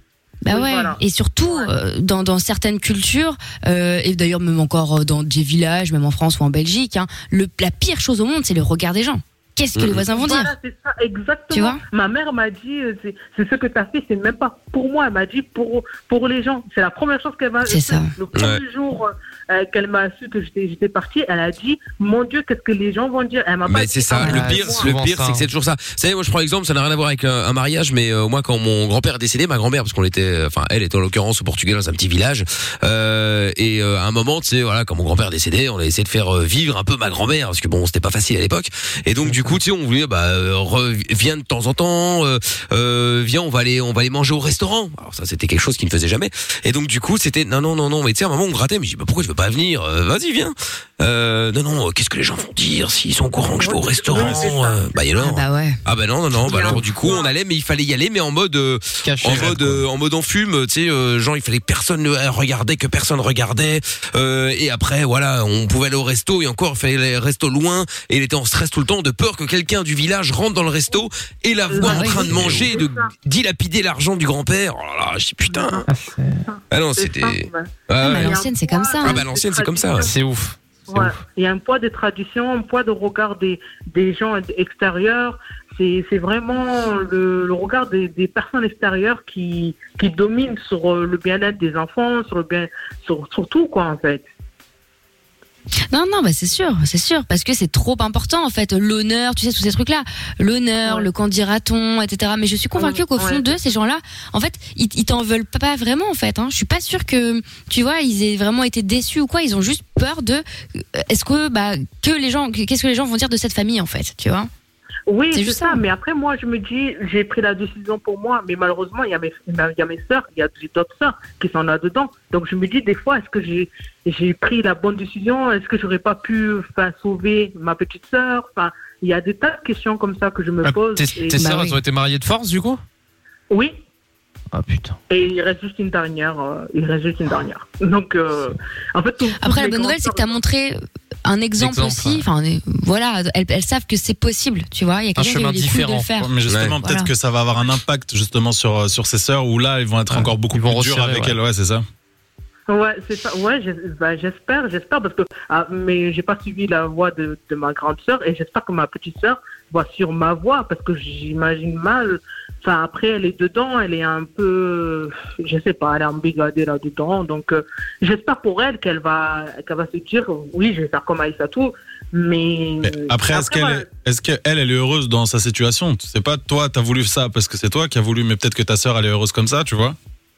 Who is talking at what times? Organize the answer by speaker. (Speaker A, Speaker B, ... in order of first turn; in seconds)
Speaker A: 0.4-10.5, 11.5-11.8, 17.6-18.1, 55.2-55.8, 71.8-72.2, 78.0-79.2, 95.9-114.5, 115.3-115.8, 131.3-131.8, 139.4-147.1
Speaker B: 0.5-1.7, 10.1-24.9, 53.5-55.0, 56.6-57.3, 71.7-73.0, 75.5-75.9, 76.5-80.1, 80.9-94.3, 100.8-101.1, 102.8-103.5, 115.1-131.5, 133.5-133.8, 135.1-140.4, 152.7-173.9
Speaker C: 9.8-10.0, 18.3-18.6, 23.7-75.8, 76.7-78.4, 79.0-80.1, 146.5-146.8
Speaker D: 24.2-25.5, 39.2-39.5, 59.0-59.8, 75.9-76.4, 80.0-81.0, 130.6-132.8, 134.5-135.0, 141.6-142.2, 145.2-146.1, 150.1-151.4
Speaker E: 146.2-151.8, 172.8-179.9